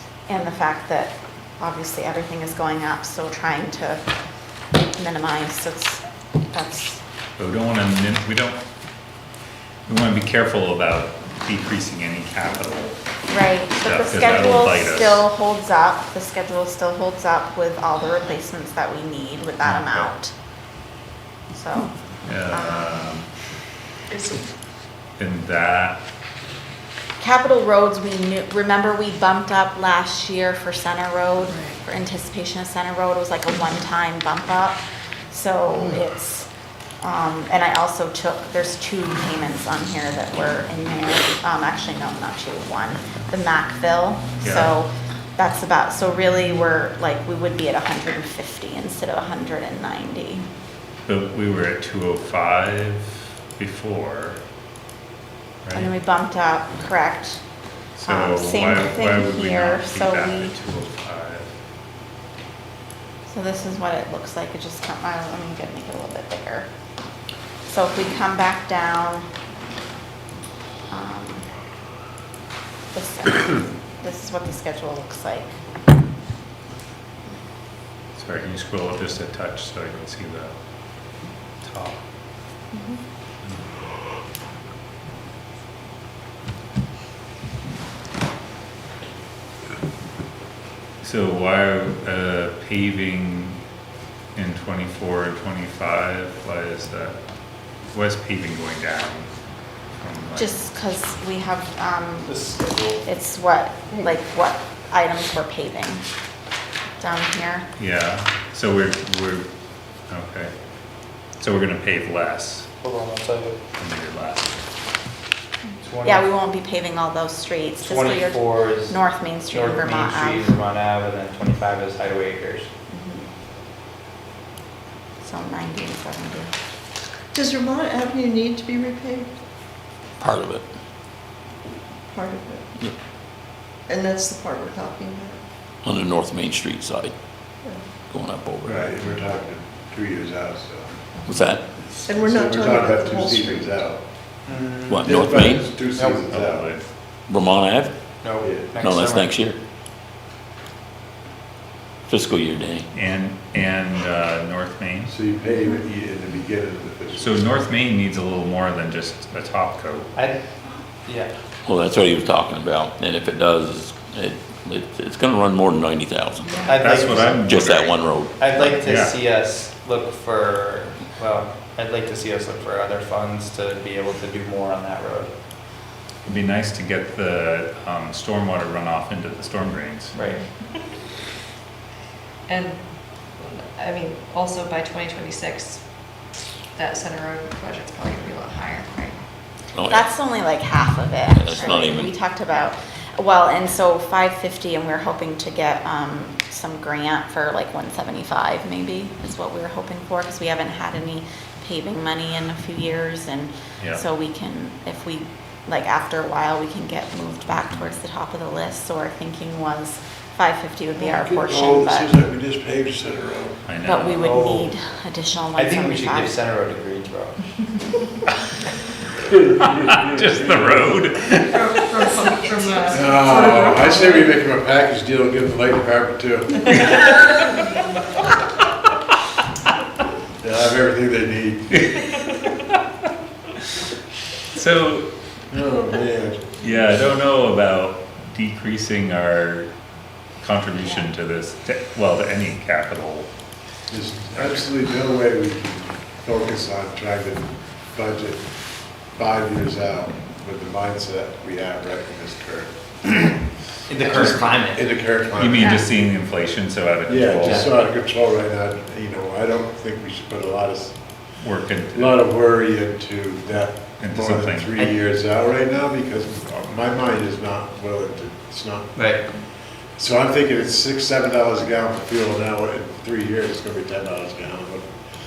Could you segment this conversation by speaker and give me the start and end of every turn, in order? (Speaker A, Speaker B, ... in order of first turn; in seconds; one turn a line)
Speaker A: 0.3-4.0
Speaker A: 5.0-7.0
Speaker B: 7.4-8.6
Speaker B: 9.9-13.0
Speaker A: 13.3-20.3
Speaker B: 13.8-15.3
Speaker B: 19.6-20.1
Speaker A: 21.5-21.9
Speaker B: 22.2-23.3
Speaker A: 22.5-23.2
Speaker B: 25.2-26.0
Speaker A: 27.2-36.5
Speaker A: 37.0-50.5
Speaker B: 44.4-44.7
Speaker B: 51.1-54.4
Speaker B: 55.6-55.9
Speaker A: 55.7-57.4
Speaker B: 58.0-61.5
Speaker A: 58.0-60.5
Speaker A: 63.3-66.7
Speaker A: 67.7-69.3
Speaker A: 70.9-71.5
Speaker A: 72.9-75.5
Speaker B: 78.2-82.0
Speaker B: 91.0-93.6
Speaker B: 94.3-97.2
Speaker B: 97.9-99.3
Speaker B: 100.0-100.6
Speaker A: 100.4-102.4
Speaker C: 102.3-103.0
Speaker A: 103.0-106.0
Speaker A: 107.0-107.7
Speaker B: 107.8-109.5
Speaker B: 110.1-110.5
Speaker B: 111.4-112.7
Speaker C: 112.8-113.6
Speaker B: 113.8-114.5
Speaker C: 115.8-116.3
Speaker A: 116.0-120.5
Speaker C: 117.8-122.7
Speaker A: 122.9-123.3
Speaker A: 125.2-126.5
Speaker D: 127.3-129.5
Speaker E: 130.2-130.6
Speaker D: 132.1-132.7
Speaker D: 133.9-135.4
Speaker E: 135.8-137.1
Speaker D: 137.6-137.9
Speaker E: 138.1-138.9
Speaker F: 138.7-141.0
Speaker E: 141.3-141.6
Speaker D: 142.1-143.8
Speaker F: 142.1-144.1
Speaker C: 144.5-145.1
Speaker E: 144.9-145.8
Speaker F: 145.0-146.7
Speaker C: 145.8-146.2
Speaker B: 146.2-146.9
Speaker E: 147.3-147.9
Speaker C: 148.2-149.3
Speaker E: 148.8-149.6
Speaker E: 152.1-152.9
Speaker B: 152.9-155.1
Speaker F: 155.1-157.6
Speaker B: 157.2-160.1
Speaker C: 160.2-160.4
Speaker C: 161.1-161.3
Speaker E: 161.7-166.6
Speaker C: 166.7-167.5
Speaker B: 166.8-169.1
Speaker E: 167.4-168.3
Speaker C: 168.1-175.3
Speaker B: 176.2-180.2
Speaker C: 180.2-180.4
Speaker G: 182.5-189.2
Speaker A: 189.9-212.1
Speaker E: 191.5-192.1
Speaker F: 211.0-213.6
Speaker B: 213.7-214.3
Speaker A: 213.8-216.3
Speaker C: 214.1-214.7
Speaker C: 215.6-217.4
Speaker F: 219.5-221.0
Speaker B: 219.9-222.1
Speaker G: 221.5-224.4
Speaker F: 222.9-227.2
Speaker F: 230.4-231.8
Speaker B: 234.5-235.1
Speaker F: 235.5-236.6
Speaker B: 236.6-239.7
Speaker B: 240.4-243.3
Speaker F: 243.9-253.4
Speaker B: 244.3-244.7
Speaker C: 253.9-254.9
Speaker F: 254.0-255.9
Speaker B: 255.3-257.7
Speaker G: 255.5-255.8
Speaker F: 257.1-261.4
Speaker C: 257.4-257.7
Speaker B: 261.4-262.2
Speaker F: 261.9-274.9
Speaker B: 264.0-264.8
Speaker C: 269.0-269.3